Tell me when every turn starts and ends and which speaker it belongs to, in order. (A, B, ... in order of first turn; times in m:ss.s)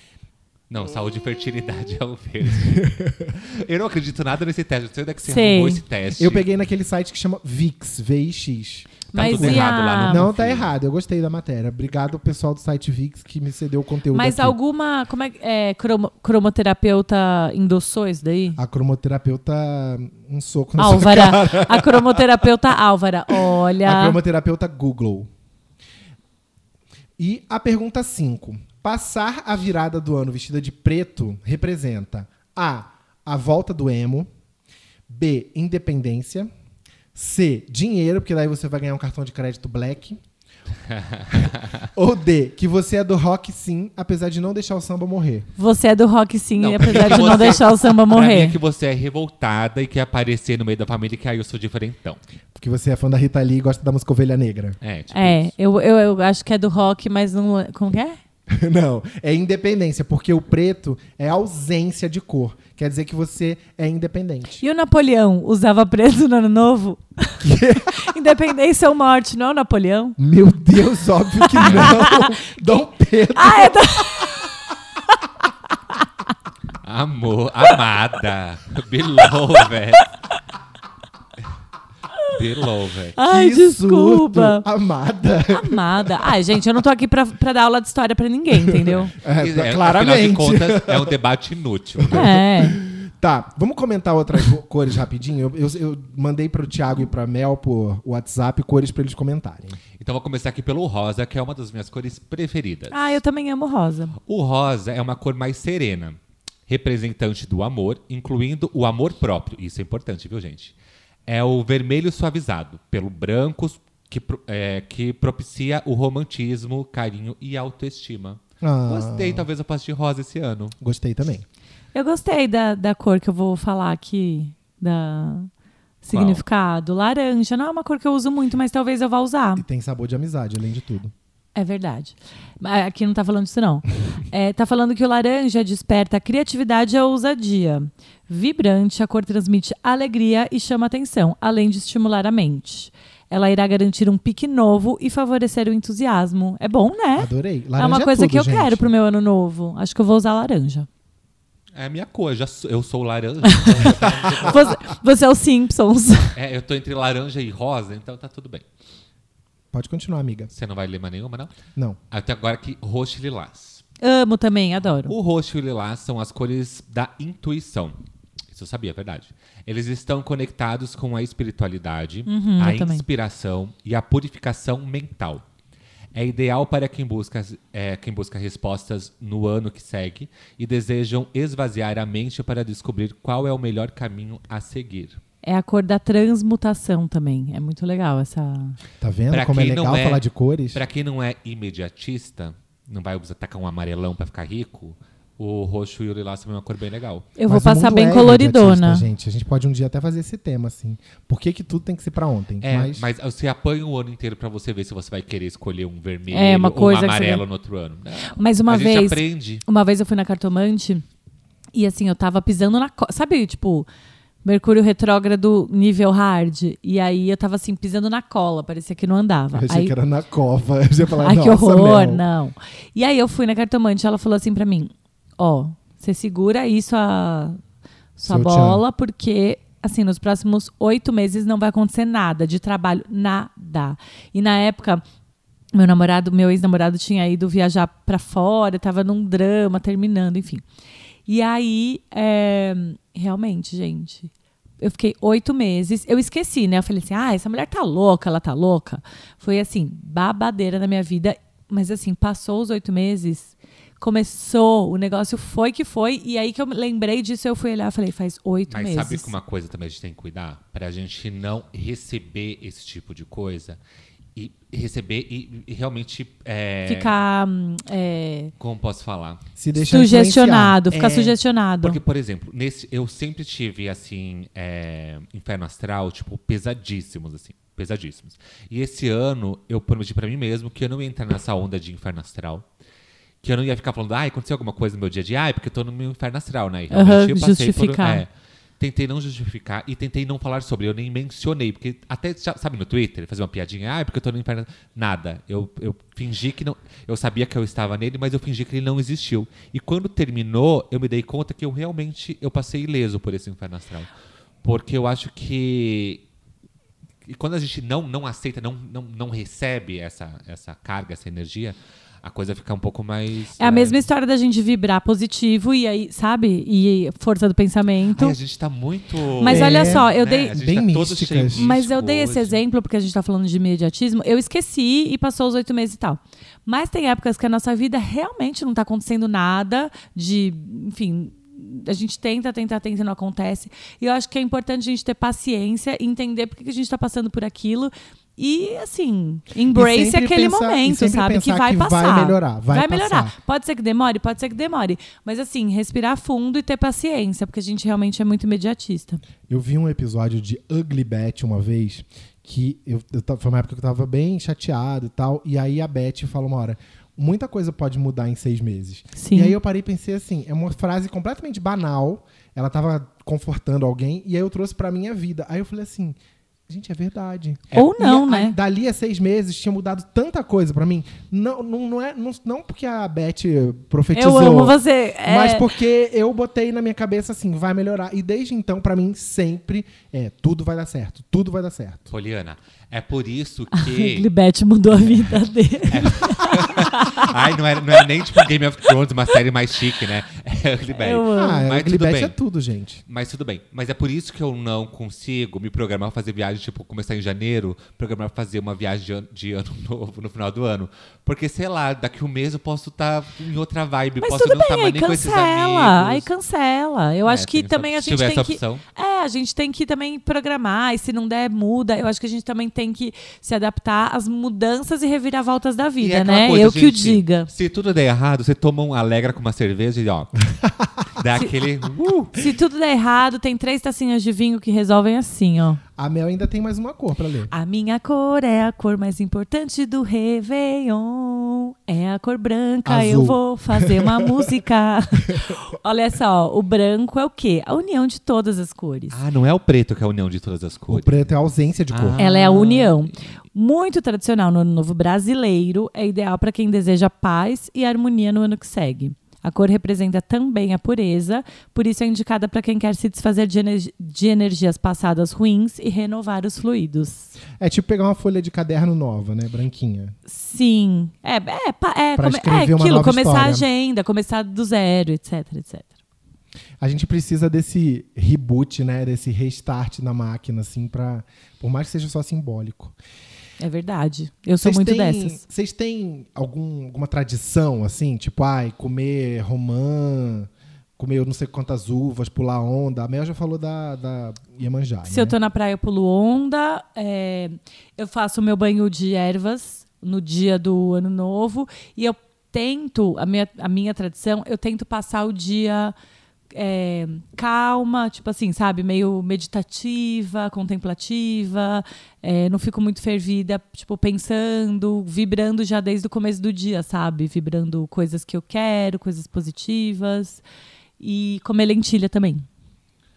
0:00.7-0:06.4 A
0:02.8-0:03.3 B
0:05.2-0:05.8 C
0:06.2-0:14.6 B
0:09.1-0:10.2 C
0:09.1-0:10.7 A
0:14.1-0:18.6 C
0:18.6-0:22.3 B
0:20.8-0:24.2 C
0:23.3-0:25.3 B
0:27.2-0:34.3 B
0:35.1-0:36.5 B
0:37.1-0:40.2 B
0:40.9-0:41.8 A
0:41.3-0:45.5 B
0:45.6-0:48.6 C
0:46.6-0:52.2 A
0:52.6-0:54.8 B
0:54.8-0:55.5 A
0:55.1-0:58.2 C
0:58.5-1:04.6 B
1:04.6-1:10.2 C
1:07.4-1:08.1 B
1:10.2-1:14.3 B
1:11.5-1:12.3 C
1:11.6-1:12.0 A
1:13.4-1:14.5 C
1:16.8-1:20.1 A
1:22.3-1:23.2 A
1:23.2-1:24.6 C
1:23.2-1:26.1 B
1:25.5-1:29.1 C
1:29.2-1:31.1 B
1:29.2-1:32.4 A
1:32.0-1:39.8 B
1:32.1-1:32.8 C
1:40.0-1:43.0 A
1:42.9-1:44.1 C
1:44.2-1:50.7 A
1:51.3-2:00.8 A
1:58.6-1:59.5 B
2:00.8-2:01.4 B
2:01.9-2:05.5 C
2:06.0-2:09.6 C
2:06.1-2:06.4 A
2:09.6-2:11.1 B
2:11.6-2:30.9 C
2:27.2-2:28.9 B
2:31.7-2:34.8 A
2:33.4-2:36.4 C
2:36.3-2:38.6 A
2:39.7-2:40.5 B
2:40.5-2:41.5 A
2:42.1-2:43.8 A
2:44.0-2:45.1 C
2:45.1-2:48.0 A
2:48.5-2:55.4 A
2:52.3-2:53.0 C
2:56.1-3:05.2 A
3:05.4-3:08.8 C
3:09.0-3:10.8 B
3:09.3-3:10.2 A
3:10.7-3:17.3 A
3:17.4-3:19.0 C
3:17.5-3:23.1 B
3:22.6-3:29.6 A
3:26.3-3:27.4 C
3:28.3-3:31.0 C
3:31.7-3:33.9 C
3:34.4-3:39.9 C
3:39.5-3:42.2 B
3:41.2-3:47.6 C
3:48.2-3:55.0 C
3:48.2-3:48.8 B
3:55.7-4:00.6 C
4:01.3-4:19.3 C
4:18.7-4:23.8 A
4:24.3-4:27.1 A
4:26.9-4:28.5 C
4:28.6-4:29.4 A
4:29.6-4:31.4 B
4:29.8-4:32.0 C
4:31.8-4:42.6 A
4:43.4-5:04.1 A
4:46.9-4:48.2 C
5:04.6-5:06.2 A
5:07.3-5:14.0 A
5:13.6-5:18.3 C
5:18.1-5:22.6 A
5:19.4-5:20.6 C
5:19.4-5:21.7 B
5:21.5-5:49.2 C
5:39.7-5:43.3 B
5:49.5-6:06.2 B
5:59.2-5:59.6 C
6:06.7-6:22.1 B
6:07.7-6:08.6 C
6:14.1-6:15.7 C
6:22.1-6:24.3 A
6:23.7-6:27.3 C
6:25.0-6:25.4 A
6:25.9-6:32.3 A
6:30.9-6:31.6 C
6:31.3-6:33.0 B
6:33.1-6:46.3 A
6:44.2-6:57.5 C
6:47.2-6:48.8 A
6:56.0-7:00.4 A
7:01.2-7:02.4 A
7:02.3-7:05.8 C
7:06.0-7:07.5 B
7:07.5-7:19.2 C
7:12.8-7:14.4 B
7:19.1-7:21.3 A
7:20.9-7:22.2 B
7:21.9-7:23.1 A
7:22.2-7:37.3 C
7:37.6-7:40.2 B
7:40.3-7:45.9 C
7:42.2-7:43.6 B
7:46.8-7:52.9 B
7:53.6-7:55.4 C
7:54.6-8:05.4 B
8:05.0-8:15.9 C
8:16.5-8:30.4 C
8:31.0-8:32.5 C